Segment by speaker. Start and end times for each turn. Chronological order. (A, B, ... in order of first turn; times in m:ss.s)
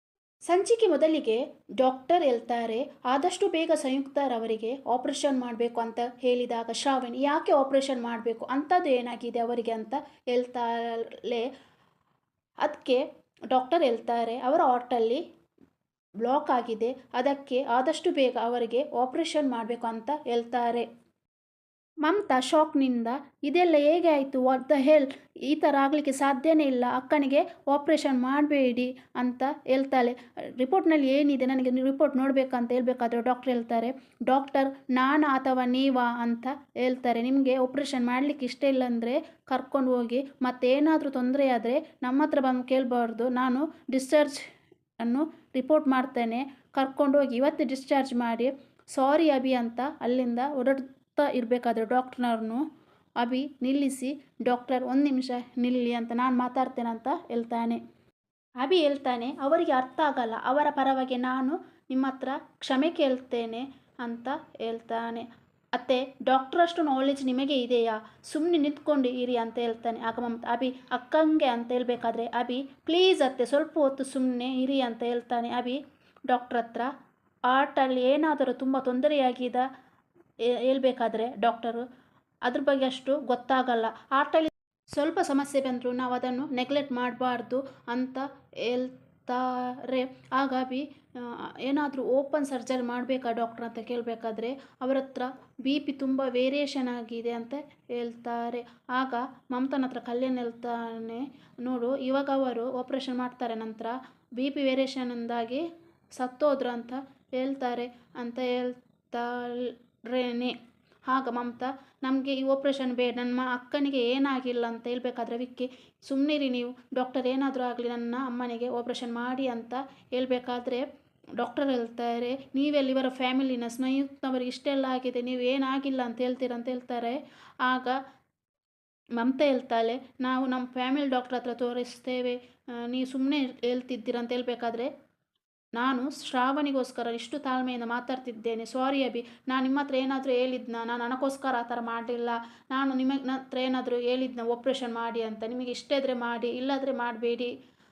0:00.5-0:11.5 A
0:12.6-0:15.2 A
0:16.2-0:20.8 A
0:22.0-0:44.4 A
0:45.0-0:52.6 A
0:53.2-0:57.8 A
0:58.6-1:16.9 A
1:17.5-1:19.6 A
1:20.5-1:21.8 A
1:22.4-1:45.6 A
1:46.1-1:50.6 A
1:51.1-2:00.8 A
2:01.4-2:08.0 A
2:09.1-2:14.9 A
2:15.7-2:27.5 A